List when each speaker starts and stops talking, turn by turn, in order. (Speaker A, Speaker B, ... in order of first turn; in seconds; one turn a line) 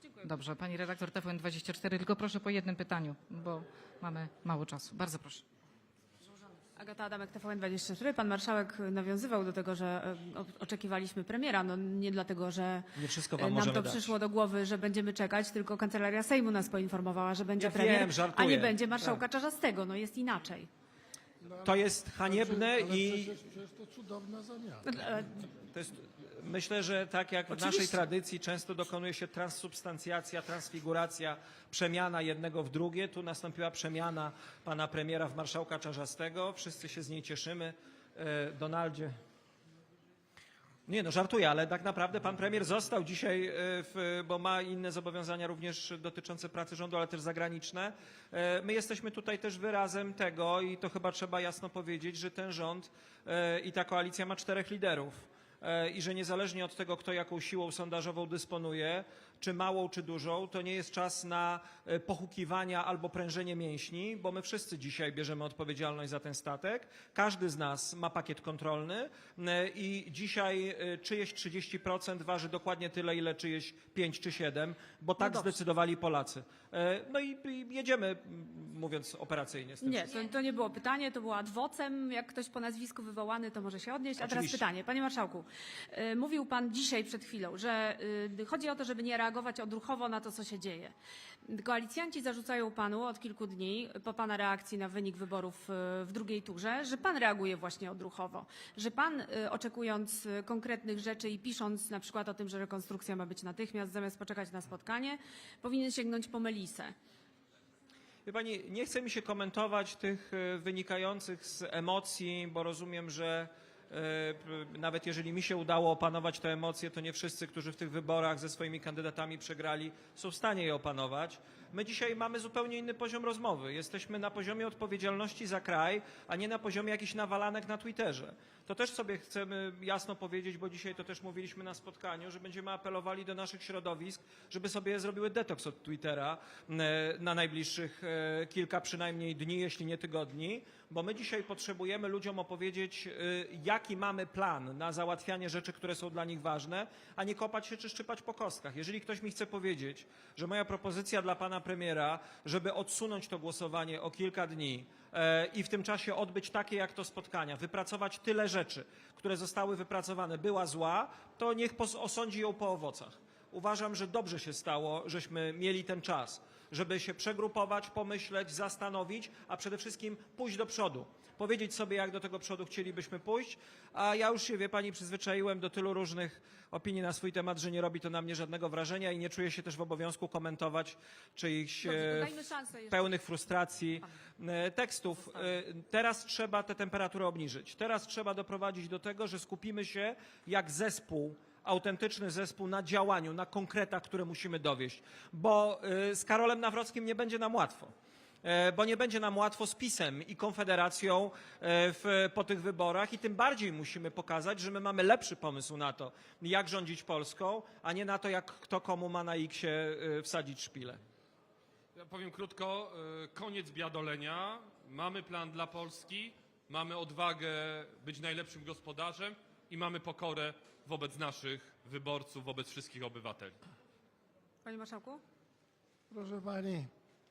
Speaker A: 0.2-5.4
Speaker B: 6.8-20.7
Speaker C: 12.9-14.1
Speaker C: 17.6-19.2
Speaker D: 21.4-24.9
Speaker C: 21.6-23.3
Speaker B: 24.8-25.4
Speaker C: 25.5-39.2
Speaker B: 27.5-28.0
Speaker C: 40.9-80.1
Speaker B: 75.2-75.5
Speaker B: 79.8-90.9
Speaker C: 84.2-84.6
Speaker B: 91.5-106.9
Speaker C: 108.2-211.0
Speaker B: 181.8-183.0
Speaker E: 211.9-223.6
Speaker B: 224.6-225.2
Speaker D: 226.1-226.9